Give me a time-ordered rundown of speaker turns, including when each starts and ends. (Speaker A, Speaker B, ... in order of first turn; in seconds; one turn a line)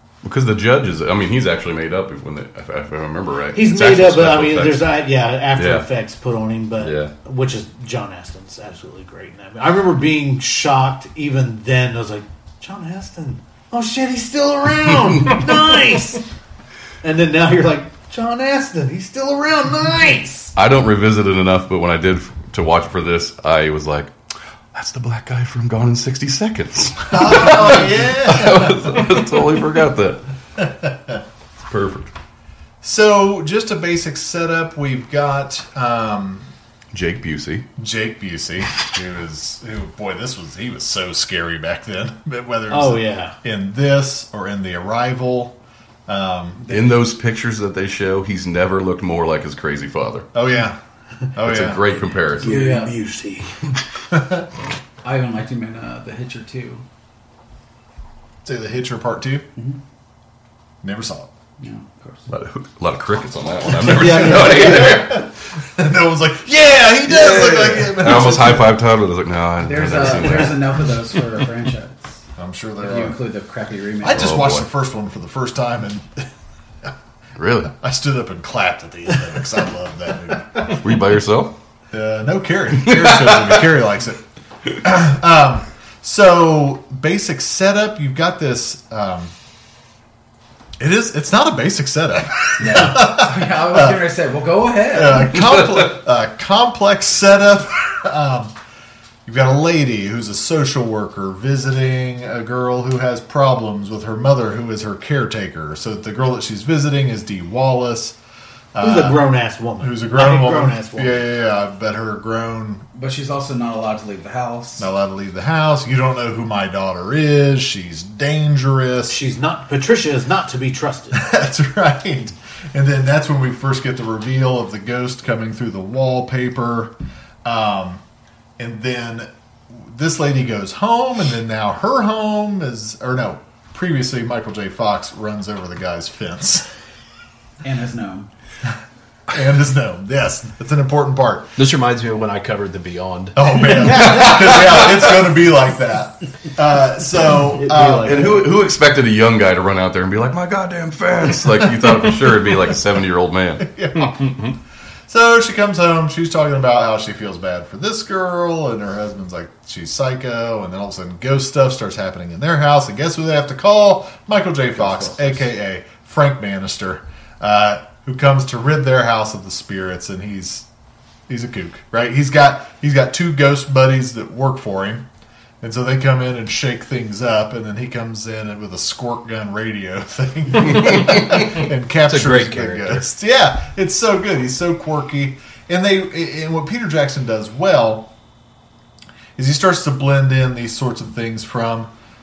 Speaker A: 0.2-4.9
Speaker B: 3.5-16.2
Speaker A: 5.5-5.9
Speaker A: 6.8-7.1
Speaker B: 17.0-20.5
Speaker A: 20.6-24.1
Speaker A: 24.7-30.2
Speaker C: 27.1-29.0
Speaker C: 30.6-31.2
Speaker A: 31.6-32.1
Speaker C: 32.8-36.5
Speaker A: 36.9-37.6
Speaker C: 37.8-45.5
Speaker B: 42.7-43.4
Speaker C: 46.1-46.6
Speaker D: 46.6-46.9
Speaker A: 46.7-50.3
Speaker C: 50.3-50.8
Speaker C: 51.3-52.0
Speaker A: 51.4-52.7
Speaker B: 52.4-53.7
Speaker D: 52.4-53.0
Speaker C: 54.1-54.5
Speaker D: 55.0-56.8
Speaker C: 58.4-59.4
Speaker C: 60.8-61.3
Speaker D: 61.6-62.3
Speaker A: 62.3-65.3
Speaker B: 63.7-65.1
Speaker C: 64.1-68.8
Speaker A: 67.0-70.9
Speaker D: 69.6-72.2
Speaker C: 72.4-73.2
Speaker D: 72.8-74.3
Speaker C: 74.0-76.3
Speaker A: 74.1-74.7
Speaker A: 77.4-77.7
Speaker C: 77.7-80.8
Speaker A: 80.6-81.5
Speaker C: 81.9-84.2
Speaker A: 82.8-83.6
Speaker C: 84.8-89.3
Speaker C: 90.8-94.0
Speaker D: 92.6-95.4
Speaker C: 94.9-98.5
Speaker C: 99.2-108.2
Speaker C: 108.7-109.2
Speaker B: 108.8-111.2
Speaker C: 109.8-112.8
Speaker D: 112.9-114.9
Speaker C: 114.8-119.2
Speaker B: 119.1-121.2
Speaker C: 121.1-126.9
Speaker C: 127.4-128.0
Speaker C: 128.6-136.7
Speaker D: 137.6-138.3
Speaker C: 139.3-141.5
Speaker E: 141.6-143.7
Speaker C: 143.3-148.3
Speaker B: 143.8-144.8
Speaker B: 147.5-148.5
Speaker A: 147.9-153.7
Speaker C: 153.6-154.3
Speaker E: 154.0-154.6
Speaker C: 155.1-170.7
Speaker D: 164.8-165.4
Speaker C: 171.3-175.0
Speaker C: 175.6-188.1
Speaker E: 182.1-183.0
Speaker C: 189.3-191.9